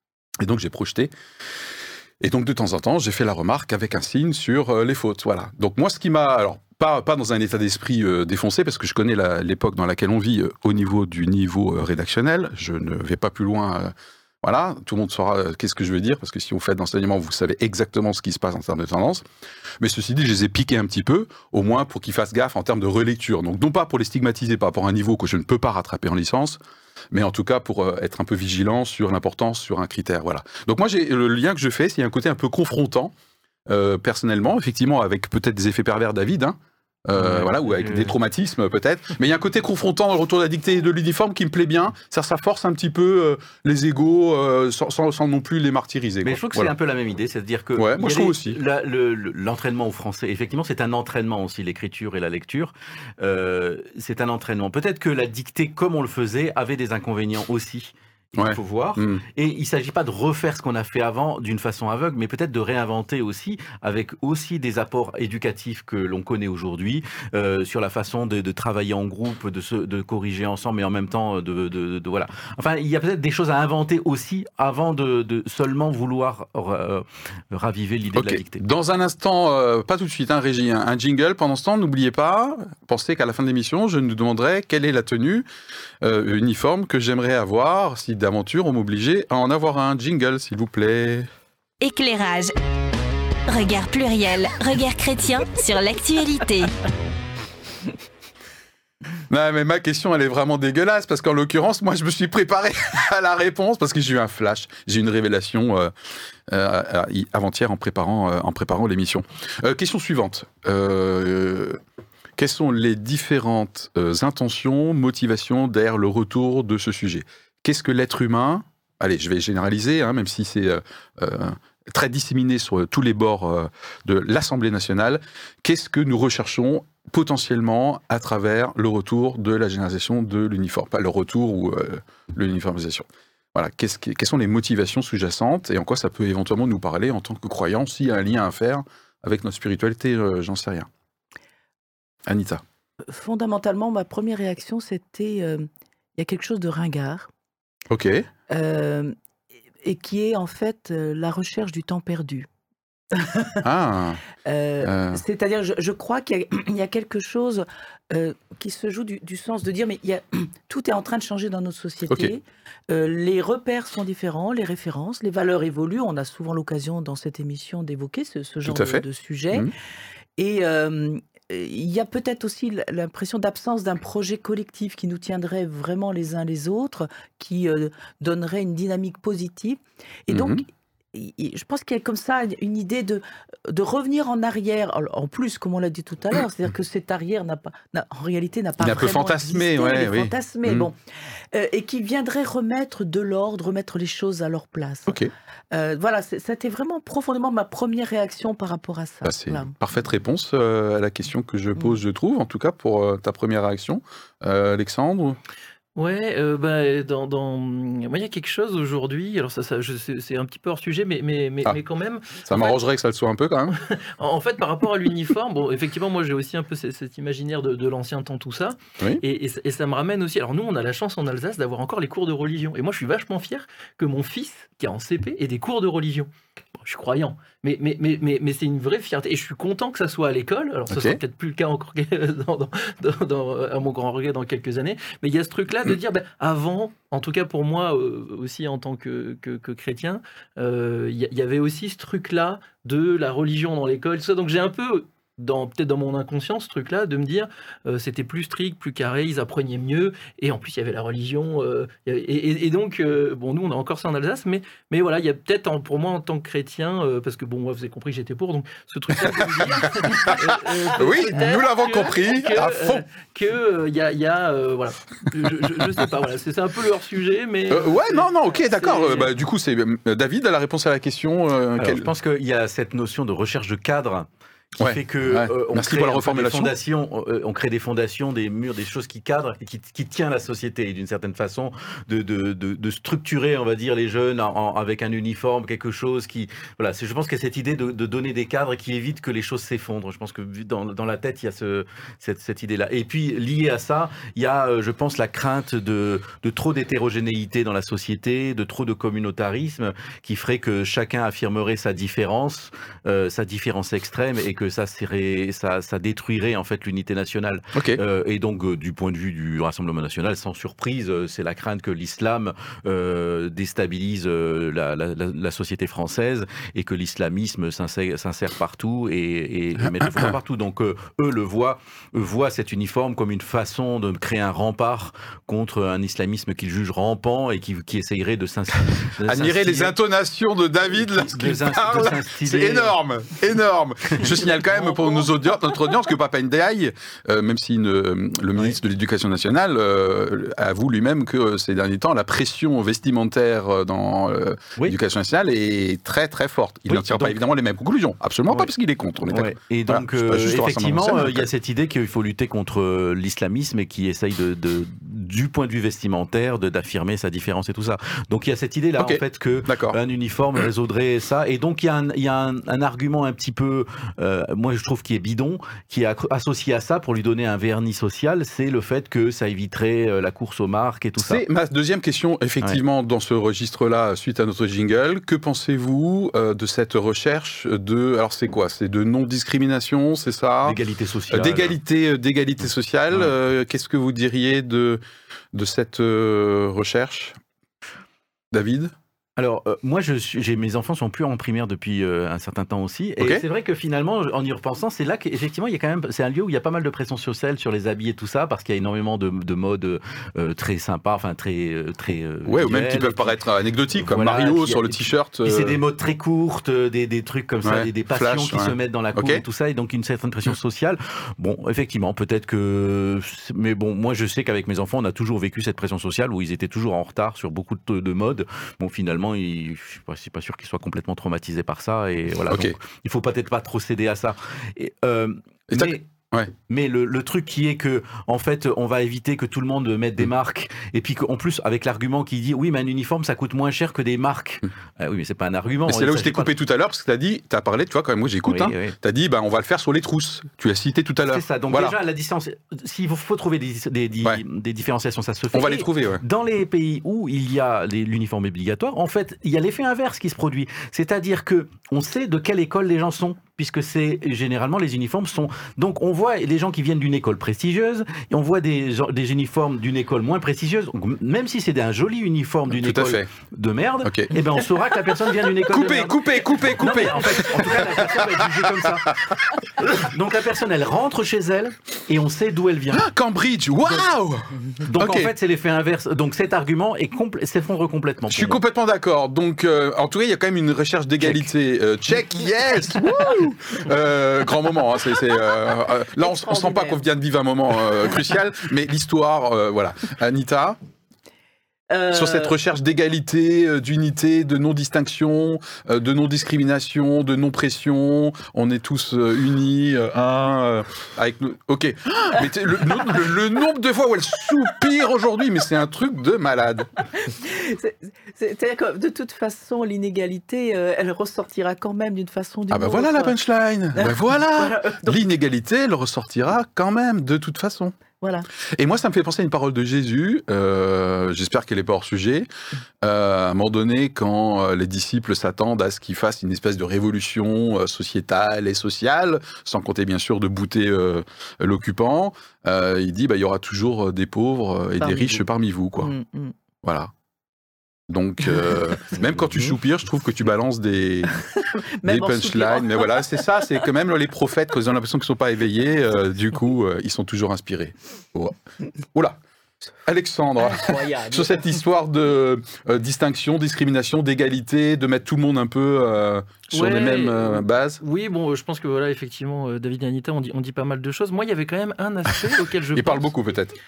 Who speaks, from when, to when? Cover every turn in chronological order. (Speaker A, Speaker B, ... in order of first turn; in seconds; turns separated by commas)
Speaker A: 0.4-1.1, Speaker A: 2.2-19.2, Speaker A: 19.8-26.6, Speaker A: 27.1-33.1, Speaker A: 33.7-46.7, Speaker B: 37.2-38.1, Speaker B: 46.2-78.6, Speaker A: 47.8-48.6, Speaker A: 58.4-59.2, Speaker A: 78.1-85.5, Speaker A: 86.0-91.3, Speaker C: 91.8-92.5, Speaker C: 93.5-96.7, Speaker A: 99.3-105.9, Speaker A: 106.5-111.8, Speaker A: 112.4-140.9, Speaker A: 142.3-142.6, Speaker D: 143.1-147.3, Speaker A: 147.9-148.3, Speaker D: 148.5-149.2, Speaker D: 149.8-152.5, Speaker D: 153.1-153.6, Speaker A: 153.6-154.2, Speaker D: 154.4-169.7, Speaker A: 154.8-155.2, Speaker A: 168.7-169.7, Speaker D: 170.4-190.9, Speaker A: 180.3-180.6, Speaker A: 188.8-190.9, Speaker D: 191.5-199.7, Speaker A: 199.2-205.4, Speaker E: 206.0-212.8, Speaker A: 212.4-213.8, Speaker E: 213.7-269.3, Speaker A: 230.9-231.2, Speaker A: 260.0-263.1, Speaker A: 267.7-272.1, Speaker B: 271.8-329.9, Speaker A: 274.8-276.7, Speaker A: 307.8-308.0, Speaker A: 319.8-320.3, Speaker A: 329.3-351.5, Speaker B: 330.9-333.0, Speaker E: 334.7-335.2, Speaker B: 346.9-347.4, Speaker B: 349.3-371.4, Speaker A: 359.0-360.0, Speaker A: 371.2-380.8, Speaker B: 380.6-381.8, Speaker A: 381.3-385.0, Speaker A: 385.5-387.4, Speaker A: 388.5-388.9, Speaker B: 389.4-403.4, Speaker A: 393.2-393.4, Speaker A: 402.5-405.8, Speaker B: 403.9-426.1, Speaker A: 407.6-409.4, Speaker A: 422.5-422.8, Speaker A: 425.7-426.5, Speaker B: 426.7-436.5, Speaker A: 435.9-441.9, Speaker B: 438.4-439.0, Speaker B: 441.3-473.1, Speaker A: 445.5-446.2, Speaker A: 462.8-463.3, Speaker A: 464.0-464.4, Speaker A: 465.7-469.1, Speaker A: 472.9-475.3, Speaker B: 474.8-478.6, Speaker A: 478.3-490.8, Speaker B: 481.2-481.5, Speaker D: 486.2-487.0, Speaker D: 491.9-492.6, Speaker A: 492.1-506.9, Speaker D: 507.2-513.4, Speaker A: 512.7-518.0, Speaker D: 514.0-515.2, Speaker D: 518.2-518.5, Speaker A: 518.7-522.5, Speaker A: 523.0-536.1, Speaker D: 535.0-535.4, Speaker D: 536.0-536.5, Speaker A: 536.8-537.1, Speaker A: 538.1-541.3, Speaker B: 539.2-539.7, Speaker D: 541.7-543.5, Speaker A: 542.0-548.5, Speaker A: 550.0-558.0, Speaker D: 550.7-551.8, Speaker E: 556.7-563.2, Speaker A: 562.9-563.8